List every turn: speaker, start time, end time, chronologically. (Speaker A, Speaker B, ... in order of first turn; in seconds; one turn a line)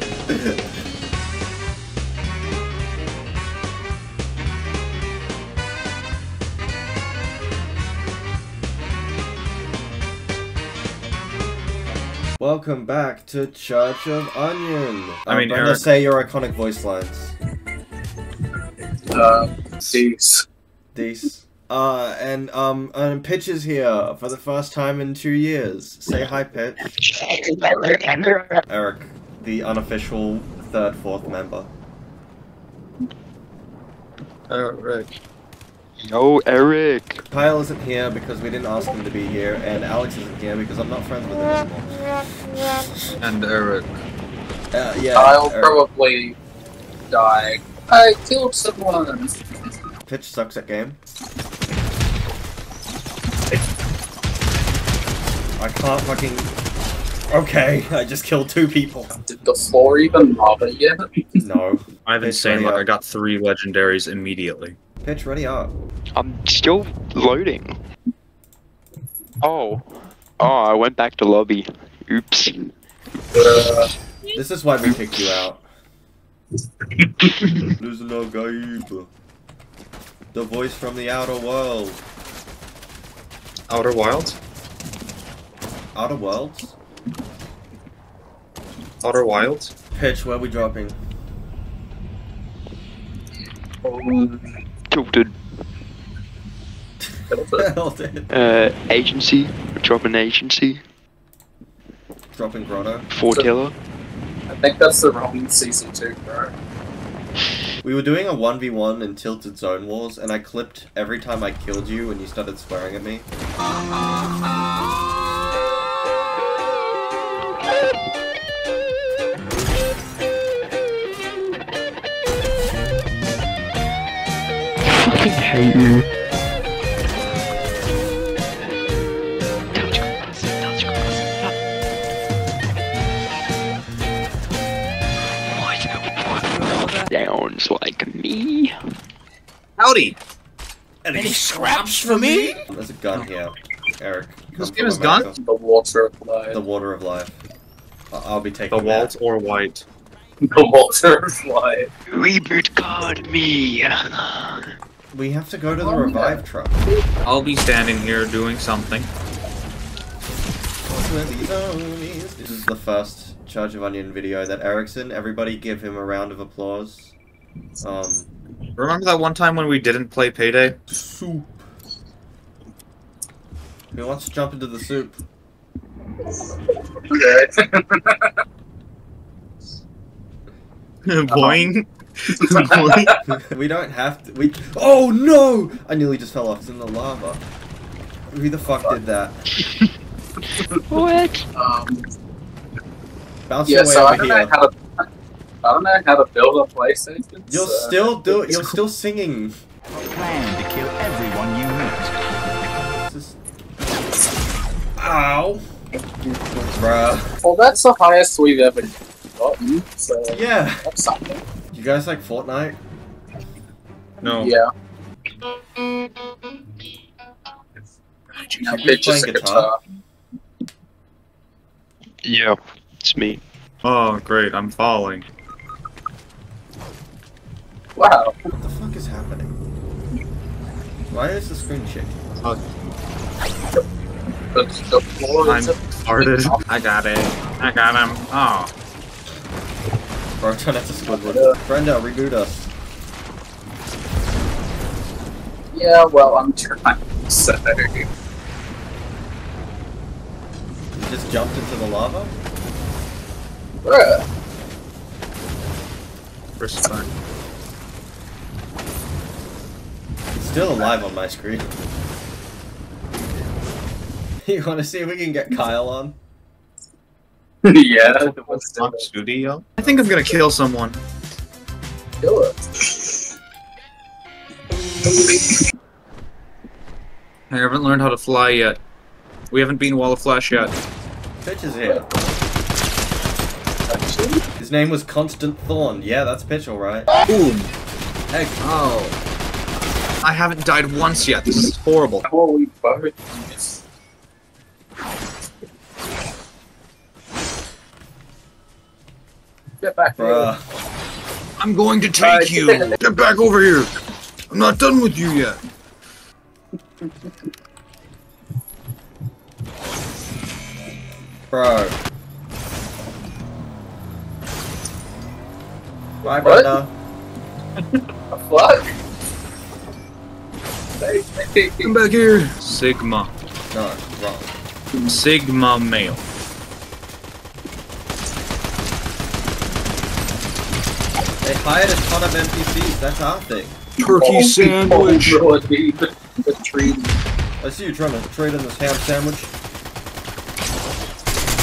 Speaker A: 0.3-0.6
Speaker A: 12.4-17.4
Speaker B: 15.3-15.9
Speaker C: 19.1-20.5
Speaker A: 20.9-26.9
Speaker D: 27.0-28.6
Speaker A: 28.7-31.7
Speaker B: 34.5-35.1
Speaker D: 36.0-37.2
Speaker A: 37.3-42.1
Speaker A: 42.7-43.1
Speaker B: 43.2-44.0
Speaker A: 44.7-45.8
Speaker C: 45.1-46.4
Speaker C: 47.1-49.6
Speaker A: 50.1-51.0
Speaker A: 55.6-56.5
Speaker A: 57.3-59.2
Speaker C: 59.2-61.4
Speaker A: 61.4-62.9
Speaker B: 62.1-64.8
Speaker A: 65.0-65.8
Speaker D: 66.2-67.8
Speaker D: 69.4-72.7
Speaker C: 73.3-73.9
Speaker A: 74.3-75.7
Speaker A: 77.8-79.1
Speaker A: 80.3-82.0
Speaker B: 83.7-84.4
Speaker A: 85.9-86.8
Speaker B: 89.0-89.7
Speaker A: 89.9-91.0
Speaker C: 93.8-94.4
Speaker D: 94.9-95.3
Speaker C: 97.3-97.7
Speaker A: 97.6-98.4
Speaker D: 98.3-100.8
Speaker A: 102.3-103.1
Speaker D: 103.1-103.8
Speaker C: 104.5-106.5
Speaker A: 107.8-113.3
Speaker D: 124.9-126.1
Speaker D: 129.8-131.5
Speaker D: 135.6-138.8
Speaker B: 136.6-137.1
Speaker B: 139.8-140.2
Speaker D: 141.2-142.6
Speaker A: 142.6-145.4
Speaker B: 144.5-145.3
Speaker C: 144.8-146.6
Speaker A: 146.5-147.4
Speaker A: 148.1-149.1
Speaker B: 148.7-149.9
Speaker C: 150.4-151.9
Speaker D: 152.1-154.7
Speaker A: 155.1-156.8
Speaker C: 155.8-157.2
Speaker B: 157.2-159.1
Speaker A: 160.9-167.2
Speaker A: 167.8-168.3
Speaker B: 168.8-170.8
Speaker A: 170.9-171.5
Speaker A: 173.9-175.2
Speaker C: 177.1-178.3
Speaker B: 181.1-183.2
Speaker C: 181.3-181.7
Speaker C: 182.6-183.0
Speaker A: 183.3-187.4
Speaker A: 188.3-189.4
Speaker C: 188.7-189.0
Speaker D: 190.9-191.4
Speaker C: 191.6-192.1
Speaker A: 193.5-194.5
Speaker C: 193.7-195.1
Speaker C: 195.6-198.5
Speaker A: 197.5-199.6
Speaker E: 200.0-202.2
Speaker A: 203.1-203.4
Speaker A: 205.0-205.6
Speaker A: 206.5-207.3
Speaker C: 207.4-211.4
Speaker A: 210.3-210.9
Speaker A: 211.7-212.8
Speaker B: 214.2-214.6
Speaker C: 214.2-214.7
Speaker B: 218.4-219.0
Speaker C: 218.6-219.8
Speaker A: 218.7-219.7
Speaker D: 222.2-223.4
Speaker B: 223.8-225.3
Speaker C: 228.0-228.4
Speaker A: 228.6-229.6
Speaker A: 231.1-232.2
Speaker C: 234.5-236.7
Speaker B: 235.4-238.7
Speaker A: 240.4-242.7
Speaker C: 241.1-241.6
Speaker C: 245.7-248.1
Speaker A: 250.9-252.4
Speaker C: 253.8-254.2
Speaker B: 256.6-257.1
Speaker A: 260.4-261.7
Speaker A: 264.4-266.2
Speaker C: 267.6-269.1
Speaker B: 268.0-271.0
Speaker A: 269.8-270.3
Speaker C: 272.2-273.1
Speaker C: 275.1-275.6
Speaker B: 277.5-278.8
Speaker B: 279.5-280.7
Speaker A: 281.4-282.1
Speaker C: 281.9-282.2
Speaker C: 283.9-284.4
Speaker A: 284.6-287.1
Speaker B: 287.2-287.7
Speaker A: 288.3-288.6
Speaker B: 288.6-289.2
Speaker B: 290.2-292.3
Speaker C: 292.2-293.8
Speaker C: 299.8-300.5
Speaker A: 300.1-300.6
Speaker B: 301.6-303.9
Speaker C: 302.2-303.0
Speaker B: 304.5-305.6
Speaker A: 311.5-312.0
Speaker A: 316.2-316.9
Speaker C: 316.4-316.7
Speaker C: 318.3-318.9
Speaker C: 321.0-321.9
Speaker B: 321.8-323.3
Speaker A: 323.7-324.5
Speaker B: 325.1-326.2
Speaker A: 331.4-333.8
Speaker B: 334.0-335.4
Speaker C: 334.0-337.2
Speaker A: 337.6-339.5